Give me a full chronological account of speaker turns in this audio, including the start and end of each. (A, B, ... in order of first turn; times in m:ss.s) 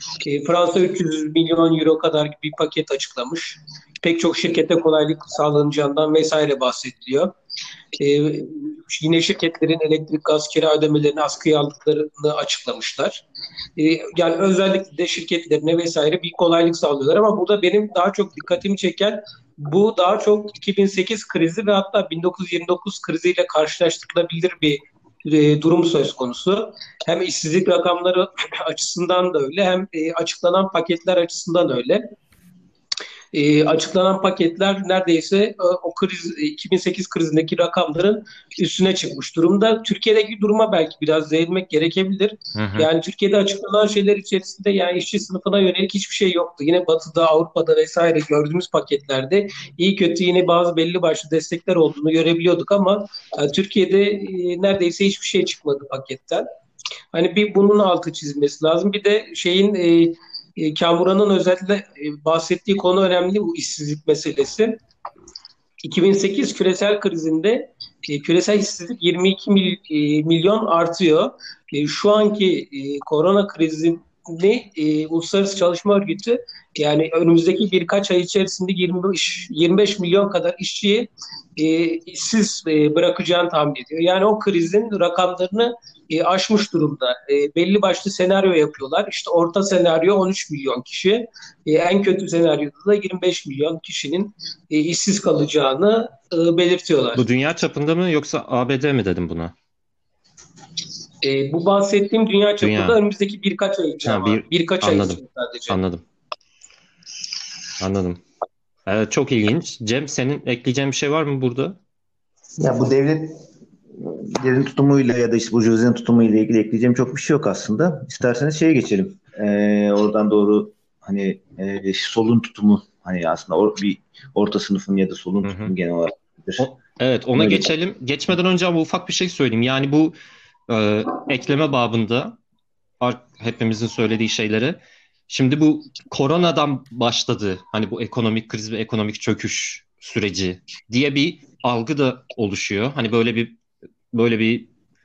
0:00.2-0:07.3 A
0:08.0-0:13.2 A
0:13.8-0:32.1 A
0:33.3-0:56.5 A
0:42.5-0:42.9 B
0:57.1-1:04.8 A
1:05.8-1:37.2 A
1:37.2-1:39.5 B
1:41.2-1:45.8 A
1:42.6-1:43.0 B
1:44.0-1:46.0 B
1:47.8-1:48.2 B
1:48.9-1:51.8 B
1:52.6-1:53.4 C
1:54.0-2:06.7 C
2:05.4-2:05.7 B
2:06.6-2:10.2 B
2:07.4-2:07.6 C
2:10.7-2:12.4 B
2:13.0-2:23.6 B
2:24.1-2:24.7 B